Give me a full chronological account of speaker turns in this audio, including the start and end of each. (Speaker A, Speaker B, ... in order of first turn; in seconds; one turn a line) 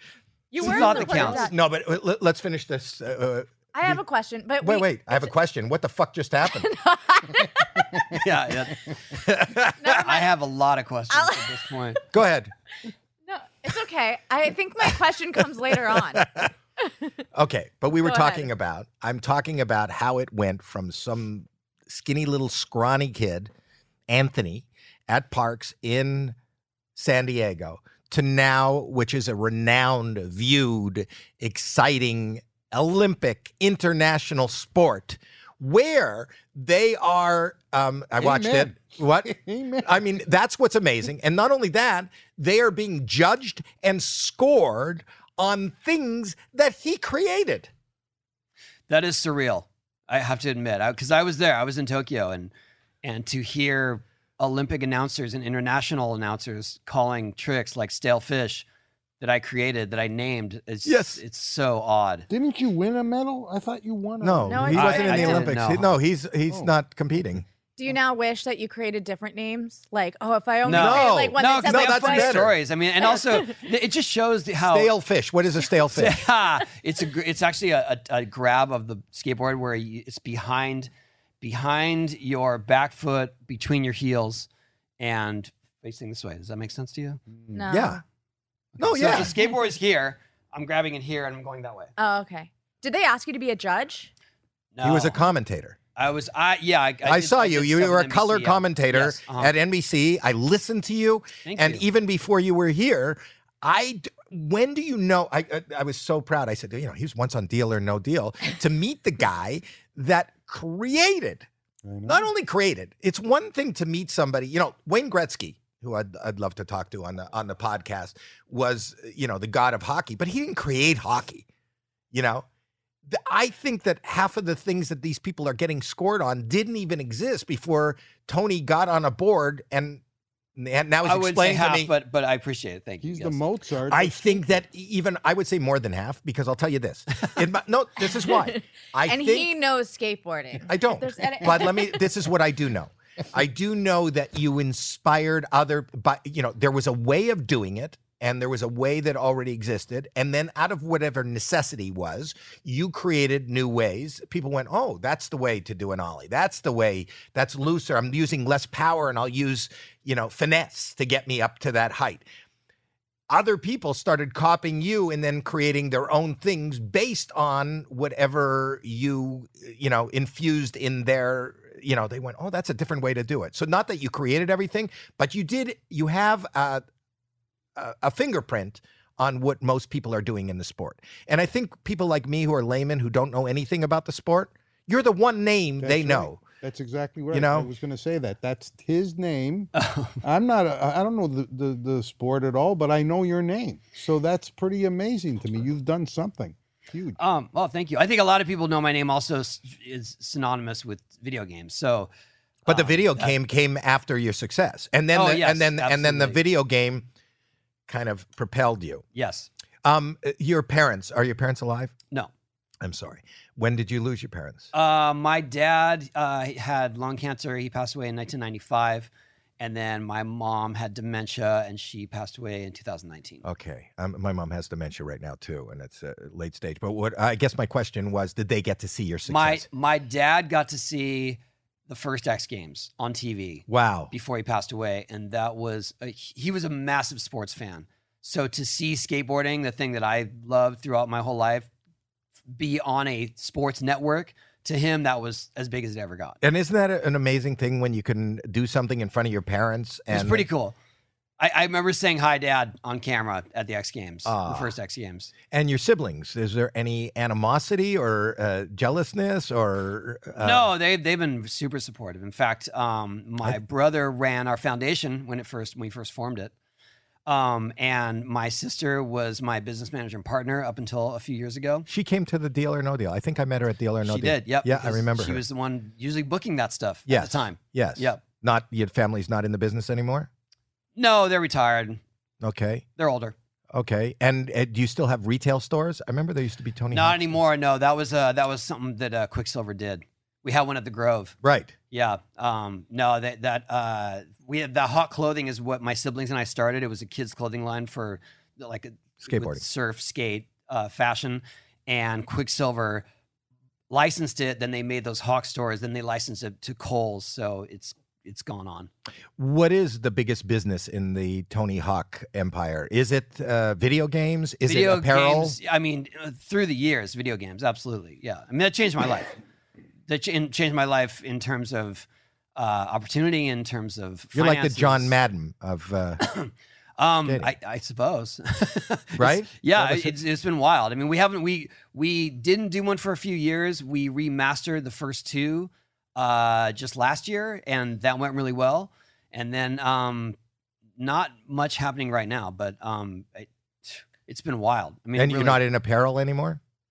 Speaker A: 0.5-1.6
Speaker B: 0.6-1.4
Speaker C: 0.6-4.0
Speaker A: 3.7-5.3
Speaker C: 4.6-6.7
Speaker A: 6.5-8.0
Speaker B: 8.1-8.8
Speaker C: 9.1-9.9
Speaker A: 9.8-10.3
Speaker B: 9.9-12.0
Speaker A: 11.1-11.6
Speaker C: 12.1-12.5
Speaker A: 13.3-16.9
Speaker C: 15.7-16.5
Speaker C: 17.3-23.5
Speaker A: 18.0-18.5
Speaker C: 24.1-26.4
Speaker C: 26.9-47.7
Speaker D: 38.2-40.0
Speaker B: 48.9-58.6
Speaker B: 59.2-62.3
Speaker C: 60.9-61.2
Speaker D: 62.3-65.1
Speaker C: 64.2-67.4
Speaker A: 64.5-65.5
Speaker B: 64.7-65.9
Speaker A: 67.8-72.3
Speaker B: 70.6-74.9
Speaker C: 70.7-72.5
Speaker A: 73.0-73.5
Speaker C: 74.7-76.2
Speaker B: 75.9-80.9
Speaker B: 81.4-84.5
Speaker B: 85.0-87.2
Speaker A: 87.5-88.0
Speaker C: 87.7-88.0
Speaker B: 88.8-91.9
Speaker C: 88.8-89.3
Speaker A: 92.0-94.1
Speaker B: 94.7-95.2
Speaker C: 94.8-95.8
Speaker B: 96.0-99.5
Speaker C: 97.0-111.5
Speaker B: 101.4-101.8
Speaker D: 111.8-112.2
Speaker C: 112.0-121.5
Speaker C: 122.1-122.5
Speaker C: 123.1-130.0
Speaker C: 130.6-131.9
Speaker B: 131.0-133.4
Speaker D: 133.0-134.2
Speaker C: 133.9-139.5
Speaker A: 139.1-142.1
Speaker C: 140.7-162.2
Speaker C: 163.3-176.8
Speaker C: 177.8-186.4
Speaker D: 185.8-189.7
Speaker C: 187.3-187.7
Speaker B: 189.7-190.2
Speaker D: 190.2-197.2
Speaker B: 197.2-202.1
Speaker B: 202.6-203.4
Speaker C: 202.7-207.1
Speaker B: 205.1-206.4
Speaker C: 207.9-209.0
Speaker B: 209.1-209.5
Speaker C: 209.8-211.9
Speaker C: 212.8-214.7
Speaker B: 214.7-223.4
Speaker C: 223.4-229.7
Speaker B: 229.2-241.7
Speaker C: 233.7-234.1
Speaker B: 242.5-246.4
Speaker C: 246.4-250.4
Speaker B: 250.1-250.8
Speaker B: 251.4-255.3
Speaker C: 254.2-254.7
Speaker C: 255.5-260.7
Speaker B: 260.4-266.5
Speaker B: 267.2-271.9
Speaker C: 271.9-275.4
Speaker B: 274.0-278.2
Speaker C: 277.1-280.3
Speaker B: 280.9-282.0
Speaker C: 282.4-282.8
Speaker B: 283.0-283.3
Speaker C: 283.7-287.4
Speaker B: 286.9-291.4
Speaker C: 291.4-291.7
Speaker B: 291.9-303.0
Speaker C: 299.2-299.6
Speaker B: 303.9-308.9
Speaker C: 309.4-315.6
Speaker B: 314.6-319.4
Speaker B: 320.1-325.1
Speaker C: 324.3-326.2
Speaker B: 326.2-340.4
Speaker C: 327.2-327.5
Speaker C: 329.2-330.1
Speaker B: 341.0-345.6
Speaker C: 345.1-346.6